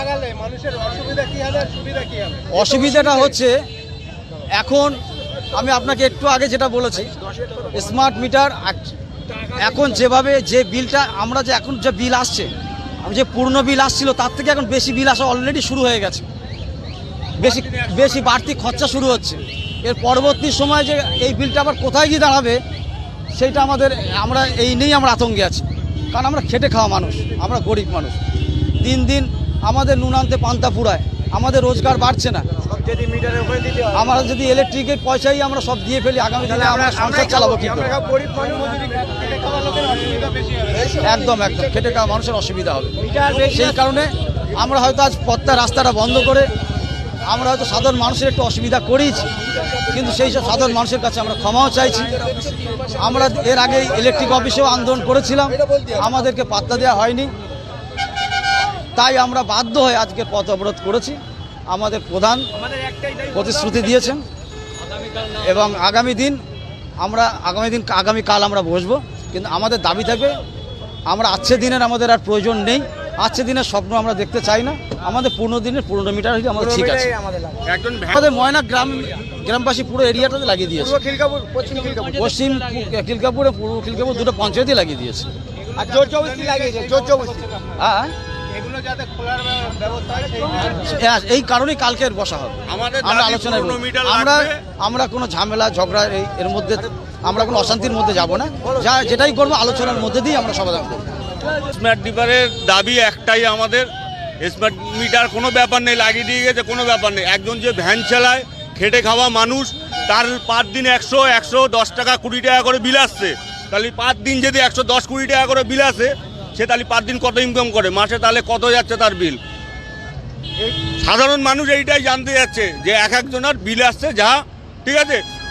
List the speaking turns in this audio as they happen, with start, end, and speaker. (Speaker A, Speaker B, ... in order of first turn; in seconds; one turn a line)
Speaker A: 2.5-3.6
Speaker A: 4.5-5.0
Speaker A: 5.5-7.1
Speaker A: 7.7-8.9
Speaker A: 9.5-12.5
Speaker A: 13.0-16.3
Speaker A: 17.4-22.6
Speaker A: 23.3-28.2
Speaker A: 28.8-32.5
Speaker B: 32.6-34.0
Speaker A: 33.9-37.9
Speaker B: 36.4-40.4
Speaker A: 41.0-43.0
Speaker B: 43.0-43.8
Speaker A: 43.5-46.5
Speaker A: 47.3-49.3
Speaker A: 49.9-52.2
Speaker A: 53.0-57.3
Speaker A: 59.0-62.5
Speaker A: 63.3-64.2
Speaker A: 65.4-66.4
Speaker A: 67.0-70.4
Speaker A: 71.1-77.1
Speaker B: 76.6-77.6
Speaker C: 77.7-78.2
Speaker A: 78.2-81.0
Speaker B: 80.8-82.2
Speaker A: 82.2-85.3
Speaker B: 85.8-87.5
Speaker A: 87.8-88.1
Speaker A: 90.7-101.0
Speaker C: 92.7-94.5
Speaker C: 101.6-103.9
Speaker C: 104.4-119.4
Speaker C: 121.0-125.2